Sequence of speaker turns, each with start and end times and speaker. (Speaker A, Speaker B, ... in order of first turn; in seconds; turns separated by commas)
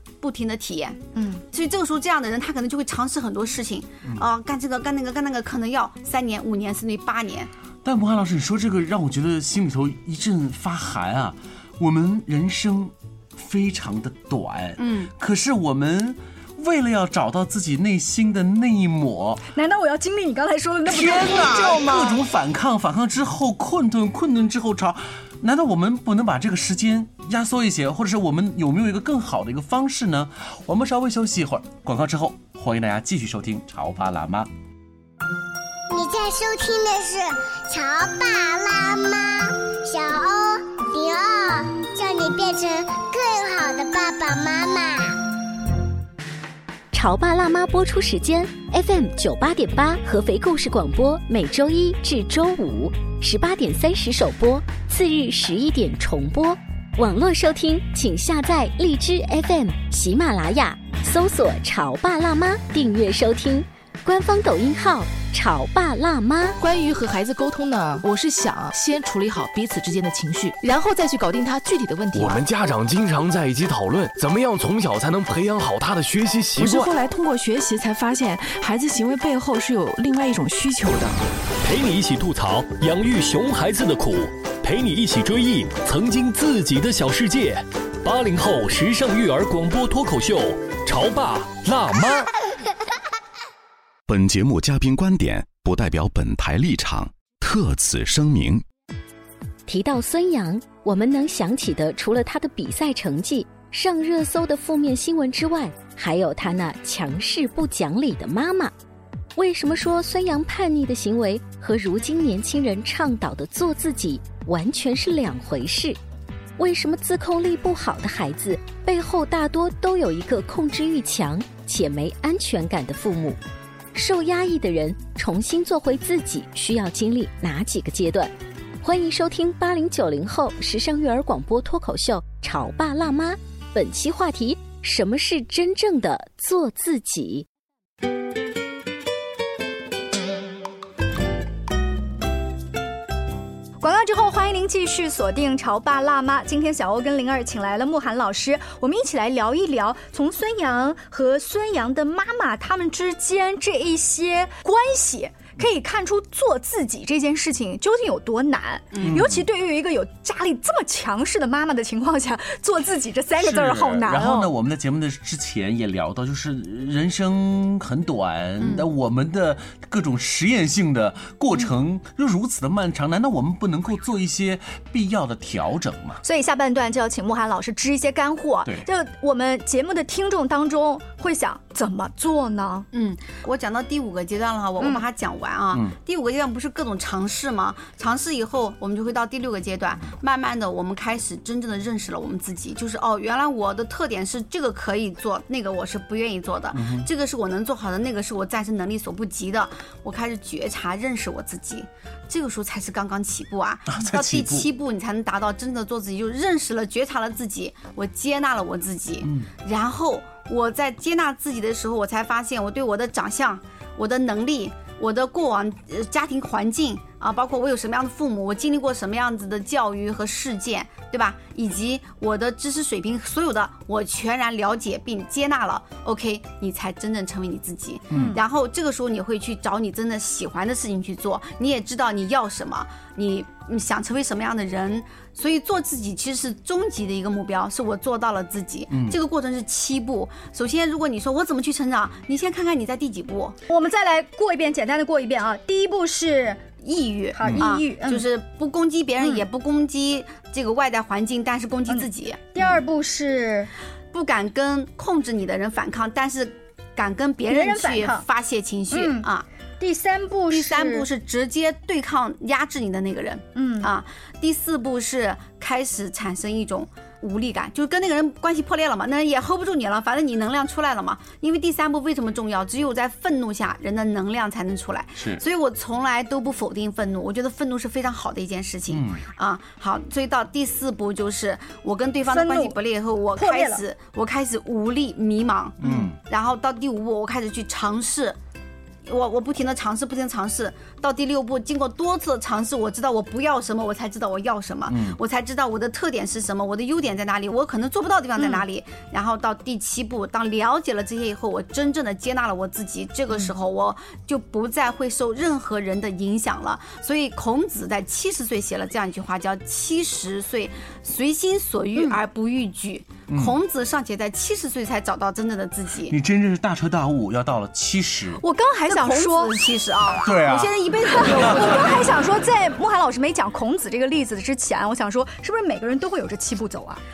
Speaker A: 0.2-7.5, Speaker B: 7.8-19.4, Speaker A: 14.8-15.1, Speaker C: 19.5-22.1, Speaker B: 20.9-34.5, Speaker D: 35.9-45.2, Speaker E: 46.9-66.6, Speaker F: 66.6-72.4, Speaker G: 72.1-76.9, Speaker F: 76.5-81.2, Speaker H: 81.6-92.3, Speaker I: 94.1-98.6, Speaker E: 99.7-108.7, Speaker E: 109.3-116.0, Speaker E: 116.6-123.4, Speaker E: 123.9-137.5, Speaker C: 143.8-164.5, Speaker A: 158.9-159.2, Speaker B: 159.0-159.4, Speaker B: 163.3-176.2, Speaker C: 176.2-182.8, Speaker A: 182.9-243.6, Speaker B: 196.7-197.1, Speaker B: 203.9-204.7, Speaker B: 209.2-209.5, Speaker B: 228.1-228.4, Speaker C: 228.1-228.4, Speaker B: 238.9-239.2, Speaker C: 243.7-246.7, Speaker A: 246.8-252.8, Speaker C: 247.3-248.3, Speaker C: 249.2-249.4, Speaker C: 251.9-253.7, Speaker A: 254.1-259.4, Speaker C: 257.5-258.2, Speaker C: 258.9-259.3, Speaker C: 259.8-261.1, Speaker A: 260.5-288.4, Speaker C: 263.5-263.9, Speaker B: 275.2-275.4, Speaker B: 278.9-279.2, Speaker C: 282.3-282.8, Speaker C: 283.4-283.8, Speaker B: 285.8-286.1, Speaker A: 289.0-316.1, Speaker B: 294.9-295.2, Speaker B: 313.3-313.6, Speaker B: 316.1-318.4, Speaker C: 318.4-319.6, Speaker A: 318.9-322.0, Speaker B: 320.2-322.0, Speaker C: 321.1-327.0